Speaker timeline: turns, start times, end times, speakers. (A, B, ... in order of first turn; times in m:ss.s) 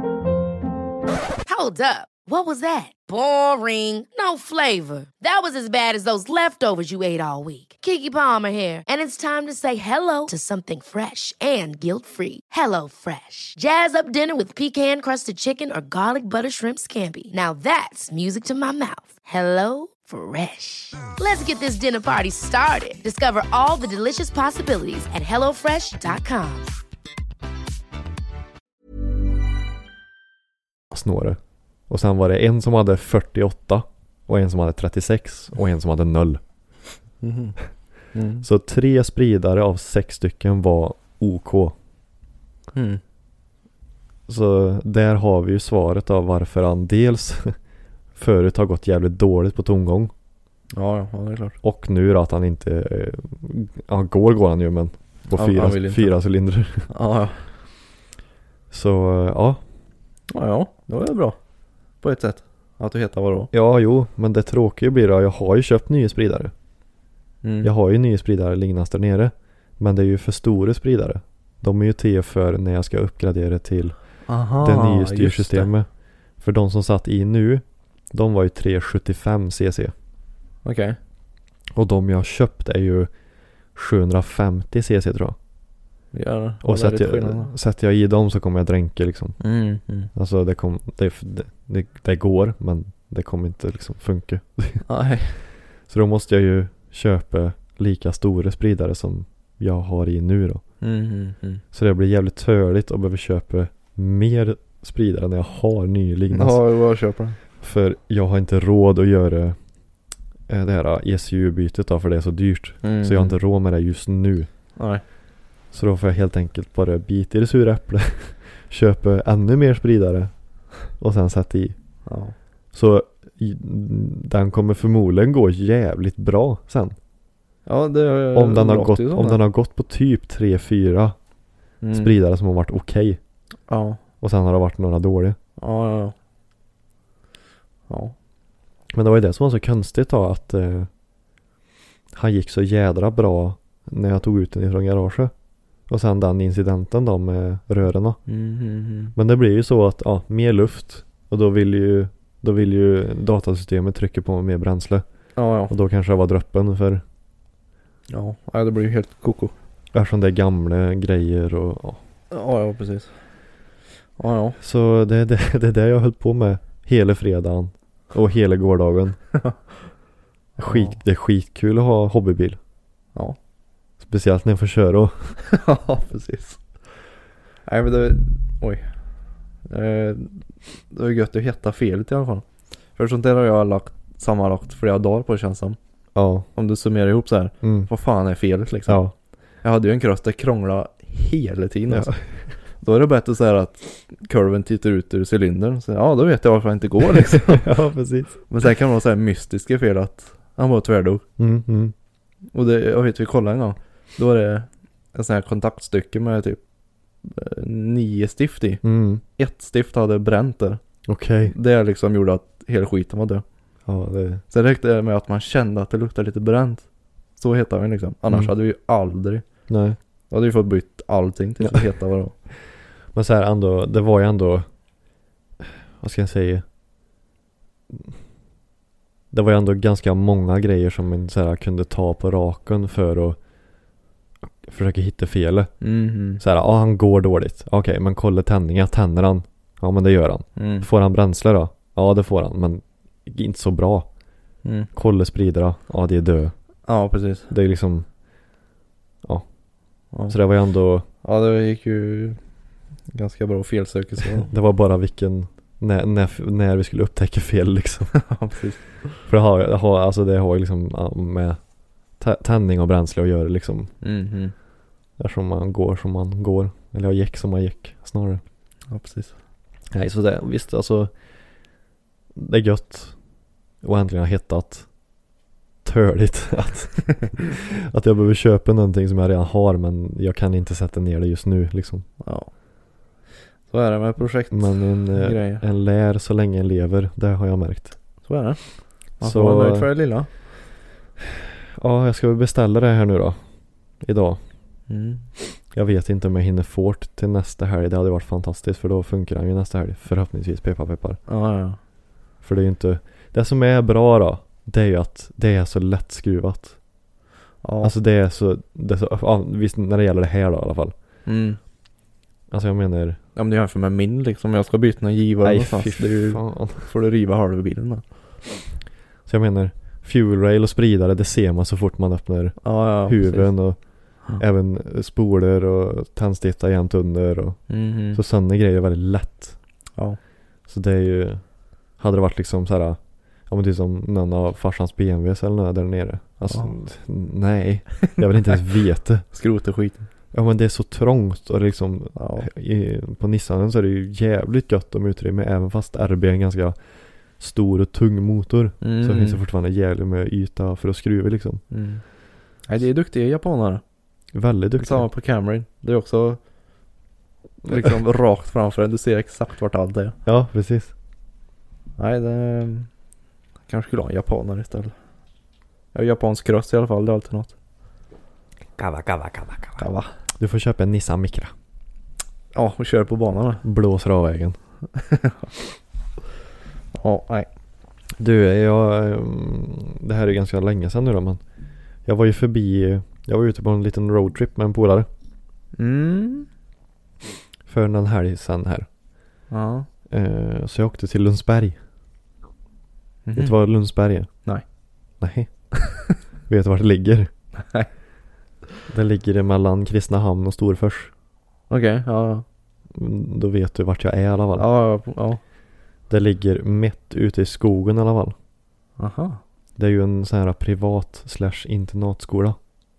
0:01.5-0:26.7 A
0:30.9-0:36.4 B
0:37.2-0:37.6 C
0:38.1-0:38.5 C
0:38.4-0:41.8 B
0:42.7-0:43.0 C
0:44.3-0:47.6 B
0:48.2-0:50.1 B
0:50.7-0:51.6 C
0:51.6-0:56.9 B
0:55.3-0:56.2 C
0:56.9-0:57.5 C
0:58.7-0:59.6 B
1:00.3-1:01.4 C
1:02.0-1:03.5 C
1:03.5-1:06.5 B
1:07.4-1:07.7 C
1:07.6-1:19.9 B
1:14.3-1:15.7 C
1:20.6-1:21.0 C
1:21.7-1:23.1 B
1:23.8-1:25.4 B
1:26.1-1:27.5 C
1:26.6-1:29.4 B
1:29.4-1:30.1 C
1:30.1-1:34.9 B
1:34.8-1:35.4 C
1:35.9-1:40.6 B
1:40.8-1:41.6 C
1:41.7-1:46.6 B
1:46.3-1:47.4 C
1:47.6-1:49.6 B
1:50.5-1:54.5 B
1:52.8-1:53.4 C
1:54.8-1:55.0 C
1:55.7-2:01.8 B
2:02.1-2:02.4 C
2:02.7-2:07.0 B
2:07.7-2:09.4 C
2:08.3-2:11.2 B
2:11.8-2:12.1 C
2:11.9-2:13.2 B
2:13.7-2:14.0 C
2:14.2-2:15.4 B
2:15.6-2:16.1 C
2:17.9-2:18.1 C
2:18.9-2:20.9 B
2:22.1-2:25.3 B
2:25.9-2:28.2 B
2:28.3-2:29.1 C
2:29.2-2:35.0 B
2:35.4-2:35.7 C
2:35.7-2:37.0 B
2:38.1-2:39.5 C
2:39.9-2:42.0 B
2:42.3-2:43.2 C
2:44.2-2:44.6 C
2:44.6-2:49.2 B
2:50.6-2:51.0 C
2:50.6-2:52.6 B
2:54.0-2:55.4 B
2:55.4-2:56.6 C
2:57.7-2:58.8 C
2:59.7-3:02.4 C
3:03.0-3:05.8 C
3:06.2-3:06.5 B
3:06.6-3:09.0 C
3:07.6-3:07.9 B
3:08.9-3:09.1 B
3:09.6-3:12.2 C
3:11.9-3:12.4 B
3:12.8-3:17.7 C
3:17.3-3:18.4 B
3:18.5-3:21.2 C
3:21.4-3:21.9 B
3:22.5-3:26.6 C
3:27.2-3:28.8 C
3:28.8-3:29.2 B
3:29.4-3:30.8 C
3:31.1-3:31.6 B
3:31.4-3:33.4 C
3:33.9-3:34.4 B
3:34.5-3:36.8 C
3:37.4-3:39.4 C
3:39.7-3:40.0 B
3:40.3-3:42.4 C
3:43.1-3:44.7 B
3:45.6-3:46.6 B
3:49.3-3:53.4 B
3:54.6-3:55.7 B
3:55.8-3:56.4 C
3:56.3-4:04.1 B
4:00.6-4:00.9 C
4:04.6-4:04.9 C
4:04.9-4:06.5 B
4:06.9-4:07.5 C
4:07.5-4:08.1 B
4:10.1-4:10.4 C
4:10.3-4:11.0 B
4:11.2-4:12.4 C
4:13.1-4:14.5 C
4:14.4-4:18.3 B
4:18.1-4:19.0 C
4:19.2-4:21.6 B
4:22.2-4:23.9 B
4:24.0-4:24.5 C
4:25.2-4:28.4 B
4:28.9-4:29.4 C
4:29.9-4:31.1 B
4:32.4-4:33.2 B
4:33.8-4:34.9 B
4:35.8-4:42.1 B
4:42.2-4:42.5 C
4:43.7-4:45.6 C
4:44.5-4:48.0 B
4:48.2-4:50.3 C
4:49.2-4:50.0 B
4:51.8-4:53.4 B
4:54.0-4:54.4 B
4:54.9-4:55.3 C
4:55.7-5:01.2 B
5:01.3-5:01.8 C
5:02.4-5:06.8 B
5:07.6-5:08.0 C
5:07.8-5:10.9 B
5:11.3-5:11.6 C
5:12.5-5:13.2 B
5:13.4-5:18.0 C
5:15.4-5:16.9 B
5:19.3-5:23.8 B
5:22.6-5:23.5 C
5:24.3-5:29.6 B
5:27.7-5:28.2 C
5:30.7-5:31.4 B
5:32.0-5:39.3 B
5:36.5-5:36.8 C
5:39.3-5:40.1 C
5:40.3-5:46.8 B
5:42.2-5:42.5 C
5:47.4-5:51.6 B
5:48.8-5:49.4 C
5:51.7-5:52.0 C
5:52.7-5:53.8 C
5:54.3-5:55.1 B
5:54.8-5:56.4 C
5:57.6-6:00.2 C
6:00.2-6:00.9 B
6:02.0-6:02.9 C
6:03.7-6:04.9 C
6:05.9-6:07.5 C
6:08.8-6:09.9 B
6:09.8-6:10.1 C
6:10.4-6:11.5 B
6:12.5-6:13.6 C
6:13.6-6:14.6 B
6:14.9-6:15.5 C
6:16.9-6:17.5 C
6:18.2-6:21.4 B
6:22.0-6:25.1 B
6:25.8-6:26.5 C
6:27.7-6:28.9 B
6:29.5-6:29.9 C
6:30.1-6:31.8 B
6:33.2-6:33.6 C
6:33.4-6:34.3 B
6:35.2-6:37.3 B
6:37.6-6:37.9 C
6:38.9-6:41.1 B
6:41.7-6:42.4 C
6:42.9-6:44.7 B
6:44.6-6:45.4 C
6:46.1-6:48.4 B
6:49.0-6:49.4 C
6:49.8-6:52.6 B